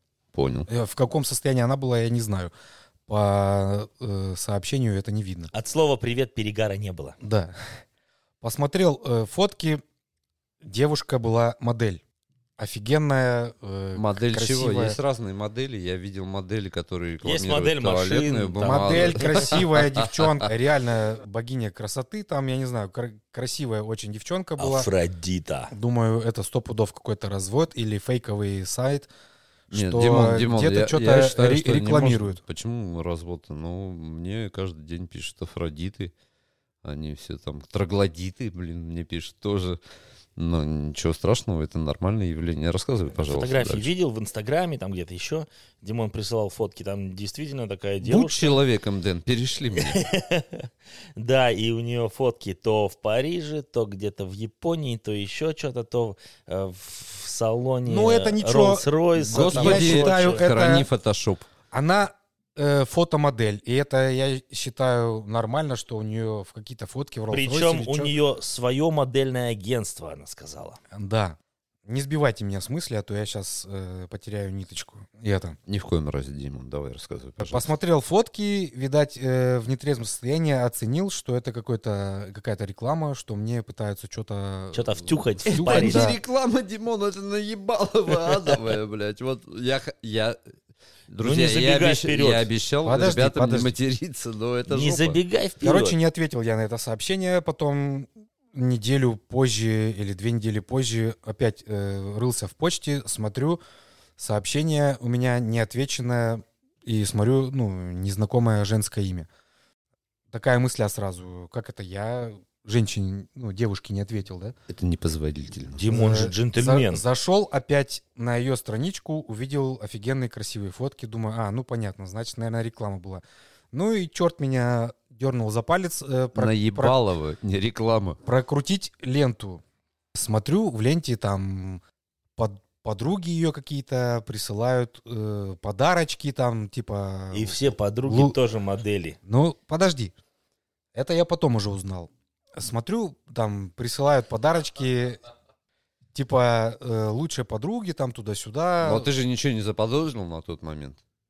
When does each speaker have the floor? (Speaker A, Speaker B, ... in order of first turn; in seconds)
Speaker A: 0.3-0.7, 13.9-20.4, 29.7-36.1, 36.8-39.8, 40.4-43.9, 48.0-50.0, 59.2-61.5, 75.7-77.7, 85.4-90.4, 91.1-95.2, 114.7-115.8, 126.3-128.2, 148.8-151.0
Speaker B: 0.7-2.5, 3.1-5.5, 7.2-7.5, 8.4-9.8, 10.6-12.0, 12.6-15.0, 18.6-24.9, 25.7-29.1, 29.7-32.4, 57.9-60.9, 61.7-68.1, 70.9-75.5, 77.4-86.2, 92.8-93.7, 95.6-103.6, 104.2-109.3, 110.3-114.5, 115.9-127.0, 128.2-129.6, 130.1-131.8, 132.4-138.3, 139.2-140.1, 140.9-145.2, 146.1-149.1
Speaker C: 5.5-7.2, 17.2-19.6, 24.6-25.7, 43.1-48.6, 49.8-60.4, 67.3-70.8, 84.7-86.0, 88.2-88.5, 91.2-92.5, 94.7-95.9, 115.8-117.0, 137.3-139.2